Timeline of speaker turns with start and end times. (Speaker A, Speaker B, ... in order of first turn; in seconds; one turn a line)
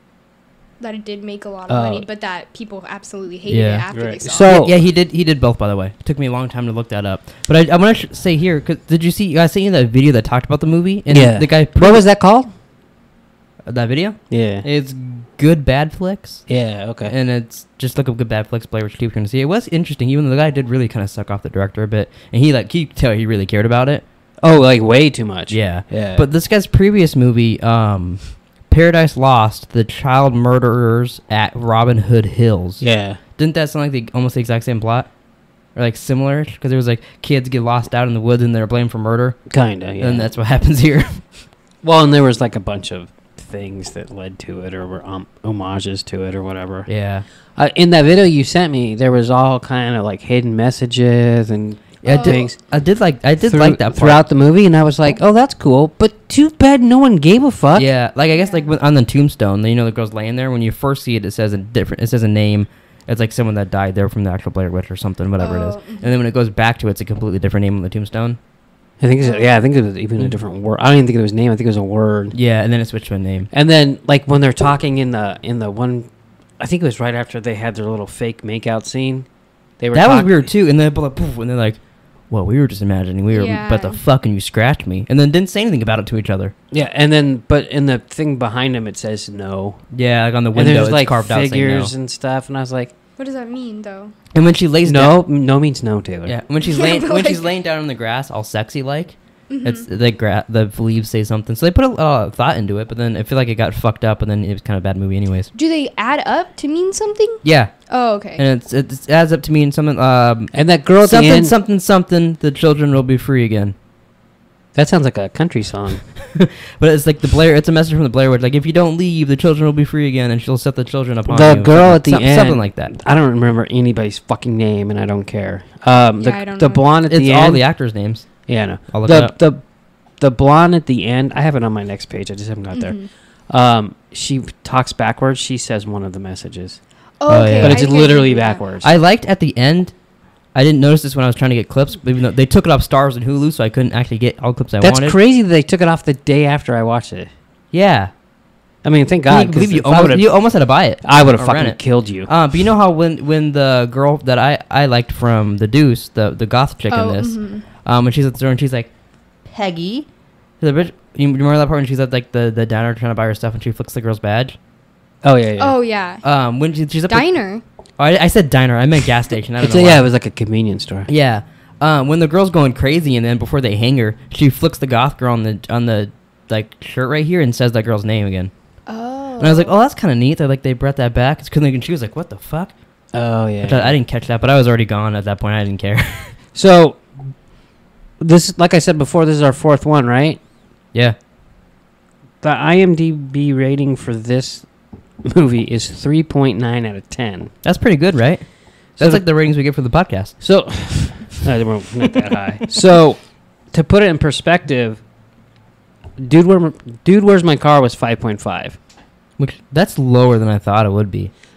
Speaker A: 0.8-4.5
Speaker B: 1.7-2.1
Speaker C: 3.5-12.1
Speaker B: 3.9-4.7
Speaker B: 11.1-12.5
Speaker C: 13.7-16.5
Speaker B: 14.3-14.7
Speaker B: 16.5-17.1
Speaker C: 17.0-24.0
Speaker B: 24.4-26.2
Speaker C: 25.5-35.1
Speaker B: 32.8-33.2
Speaker C: 35.7-41.4
Speaker B: 39.5-40.3
Speaker B: 41.8-52.6
Speaker C: 46.9-47.3
Speaker C: 52.0-54.3
Speaker A: 52.1-52.8
Speaker B: 53.4-57.9
Speaker C: 57.8-68.4
Speaker A: 58.3-58.7
Speaker A: 65.4-66.1
Speaker B: 69.0-72.4
Speaker A: 69.2-69.5
Speaker C: 72.3-73.5
Speaker B: 73.5-80.5
Speaker C: 79.9-86.5
Speaker A: 83.3-84.0
Speaker B: 86.7-89.9
Speaker C: 89.9-91.9
Speaker B: 90.5-92.9
Speaker A: 93.2-94.1
Speaker C: 94.3-95.2
Speaker B: 94.9-96.3
Speaker C: 96.3-105.5
Speaker A: 96.6-97.5
Speaker A: 99.5-99.9
Speaker A: 105.5-108.4
Speaker C: 107.4-113.8
Speaker B: 110.5-111.5
Speaker B: 114.8-116.0
Speaker C: 116.3-122.9
Speaker B: 121.3-136.9
Speaker A: 126.2-126.9
Speaker C: 127.1-129.4
Speaker A: 132.7-133.1
Speaker A: 137.2-138.6
Speaker C: 137.3-138.2
Speaker B: 137.6-139.0
Speaker C: 138.8-145.2
Speaker B: 144.8-147.3
Speaker C: 147.7-148.2
Speaker B: 148.8-152.3
Speaker C: 149.3-160.1
Speaker A: 156.9-157.7
Speaker C: 160.6-164.6
Speaker B: 165.2-165.8
Speaker A: 165.6-166.2
Speaker C: 166.2-167.4
Speaker A: 167.1-167.6
Speaker C: 168.0-170.1
Speaker B: 169.6-171.1
Speaker C: 171.1-178.5
Speaker A: 178.9-179.7
Speaker C: 179.4-186.4
Speaker B: 183.1-184.0
Speaker B: 186.5-187.4
Speaker B: 188.2-190.4
Speaker B: 192.4-197.6
Speaker C: 197.6-201.2
Speaker B: 198.9-199.9
Speaker B: 200.4-205.1
Speaker B: 206.2-208.8
Speaker C: 209.4-211.3